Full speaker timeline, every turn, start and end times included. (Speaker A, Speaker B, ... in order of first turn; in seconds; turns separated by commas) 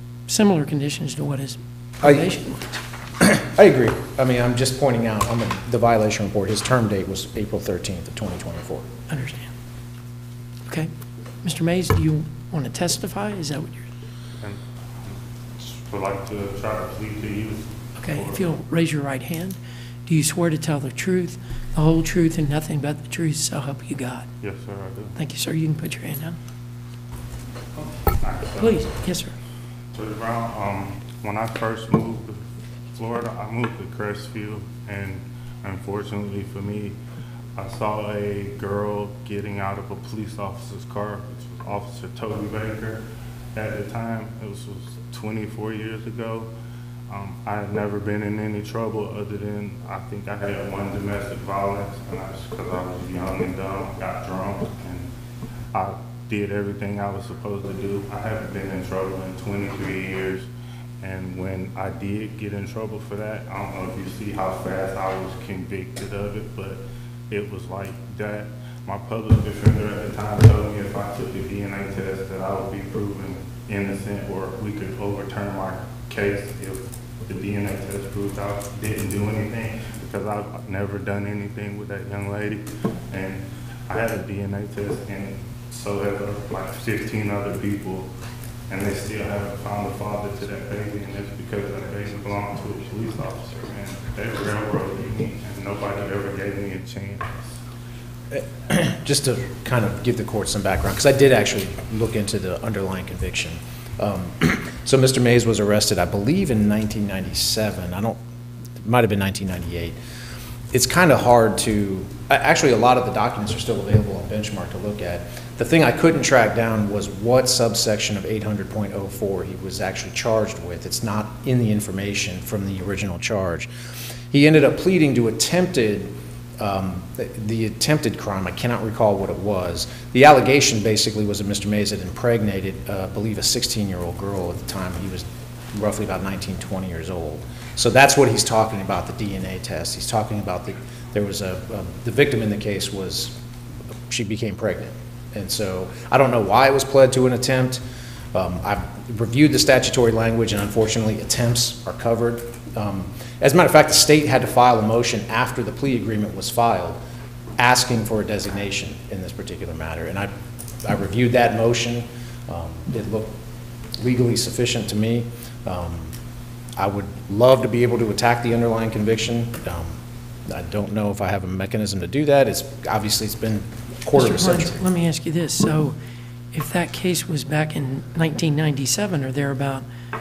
Speaker A: 0.3-2.7, Speaker B: 2.0-2.3, Speaker B: 3.2-8.9, Speaker A: 9.1-9.5, Speaker A: 11.4-13.9, Speaker C: 14.4-18.5, Speaker A: 18.0-24.3, Speaker C: 24.4-25.2, Speaker A: 25.1-26.4, Speaker C: 28.2-28.9, Speaker A: 28.6-29.4, Speaker C: 29.9-32.4, Speaker C: 33.0-37.0, Speaker C: 37.5-43.0, Speaker C: 43.5-46.5, Speaker C: 47.1-55.1, Speaker C: 55.7-60.5, Speaker C: 61.0-88.1, Speaker C: 88.7-97.6, Speaker B: 98.3-108.2, Speaker B: 108.8-110.0, Speaker B: 110.7-123.7, Speaker B: 124.3-143.4, Speaker B: 144.1-147.8, Speaker B: 148.3-157.0, Speaker B: 157.6-163.3, Speaker B: 163.9-166.2, Speaker B: 166.8-174.8, Speaker A: 174.1-176.0, Speaker A: 176.5-179.8